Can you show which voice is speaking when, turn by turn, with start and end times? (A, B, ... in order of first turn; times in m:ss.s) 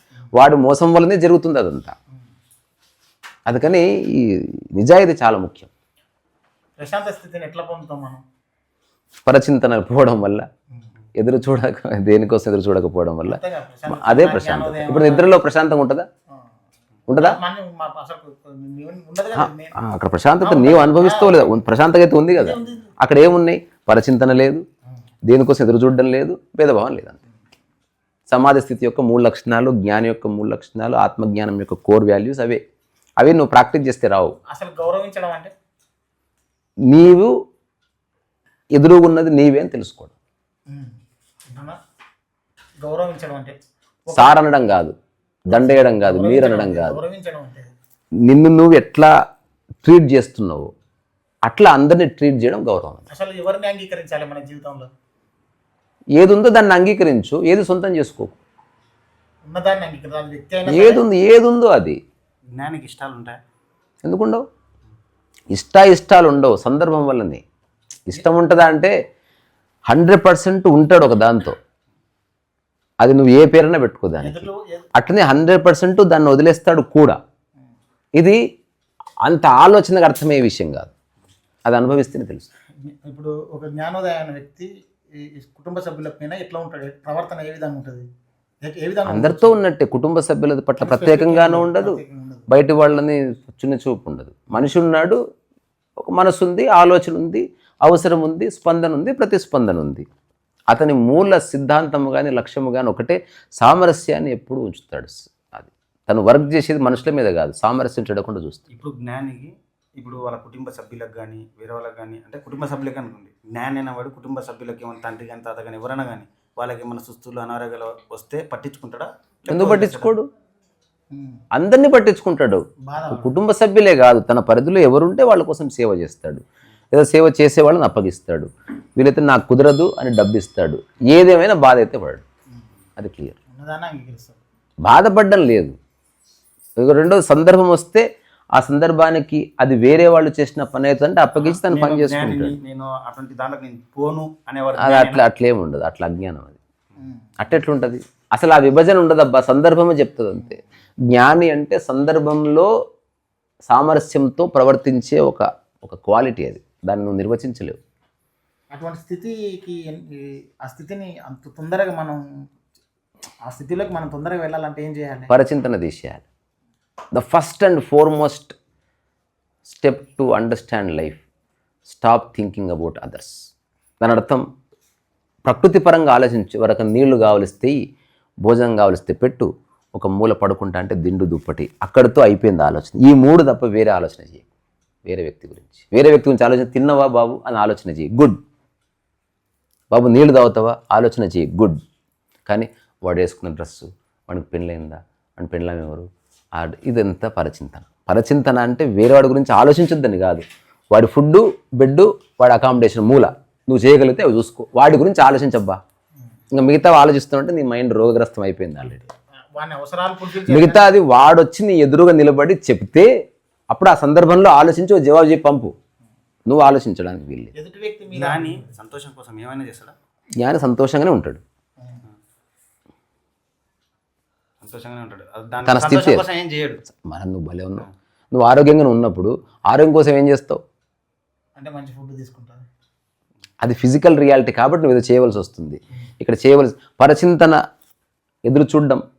0:00.3-0:01.9 A
0:03.5-0:05.7 A
0:06.8-0:08.2 B
0:09.3-0:10.5 A
0:11.2-0:16.1 A
0:13.3-0:15.3 B
0:17.1-0:17.4 A
0:17.2-0:19.8 B
0:19.4-0:24.6 A
0:20.4-0:21.6 B
0:22.3-0:22.9 B
0:25.3-0:27.2 A
0:28.3-0:32.6 A
0:33.2-0:34.3 A
0:34.5-0:35.5 B
0:36.9-0:37.3 A
0:38.8-0:40.1 A
0:40.7-0:40.9 B
0:41.5-0:41.8 B
0:42.8-0:44.4 B
0:44.1-0:44.9 A
0:45.5-0:47.0 A
0:45.5-0:47.7 B
0:48.2-0:49.1 A
0:49.8-0:50.7 A
0:51.4-0:53.0 A
0:53.1-0:54.9 B
0:56.2-0:58.4 A
0:59.5-1:01.0 B
1:00.7-1:02.0 A
1:02.5-1:03.4 C
1:04.0-1:04.4 A
1:05.5-1:07.4 A
1:08.1-1:08.9 A
1:09.9-1:11.6 A
1:13.0-1:17.2 A
1:14.2-1:14.9 B
1:19.2-1:20.9 A
1:21.6-1:22.5 A
1:22.9-1:28.0 B
1:28.6-1:29.5 B
1:29.1-1:35.2 A
1:30.8-1:32.5 B
1:36.0-1:40.0 A
1:40.7-1:48.6 A
1:48.7-2:00.2 C
1:59.5-2:00.3 A
2:01.1-2:01.4 B
2:01.5-2:12.2 A
2:02.9-2:03.4 B
2:13.0-2:13.4 A
2:13.5-2:14.4 B
2:14.8-2:15.7 A
2:16.8-2:18.0 A
2:18.6-2:22.6 A
2:21.5-2:25.2 C
2:24.8-2:26.6 A
2:27.0-2:27.3 B
2:27.4-2:32.7 A
2:33.7-2:37.8 A
2:38.7-2:42.2 B
2:43.4-2:45.3 B
2:45.3-2:46.2 A
2:47.1-2:48.6 A
2:49.7-2:51.2 A
2:51.9-2:53.3 A
2:54.0-2:54.4 A
2:55.4-2:57.8 A
2:58.4-3:04.5 A
3:05.1-3:08.4 A
3:09.9-3:11.8 A
3:12.5-3:25.8 A
3:26.5-3:29.0 A
3:29.6-3:30.8 B
3:30.5-3:33.1 A
3:33.7-3:35.7 A
3:36.5-3:37.5 A
3:37.6-3:38.6 B
3:38.1-3:39.9 C
3:40.4-3:41.4 A
3:44.6-3:46.8 C
3:45.6-3:46.2 A
3:46.9-3:50.6 A
3:51.6-3:52.6 B
3:53.6-3:57.6 A
3:58.5-3:59.0 A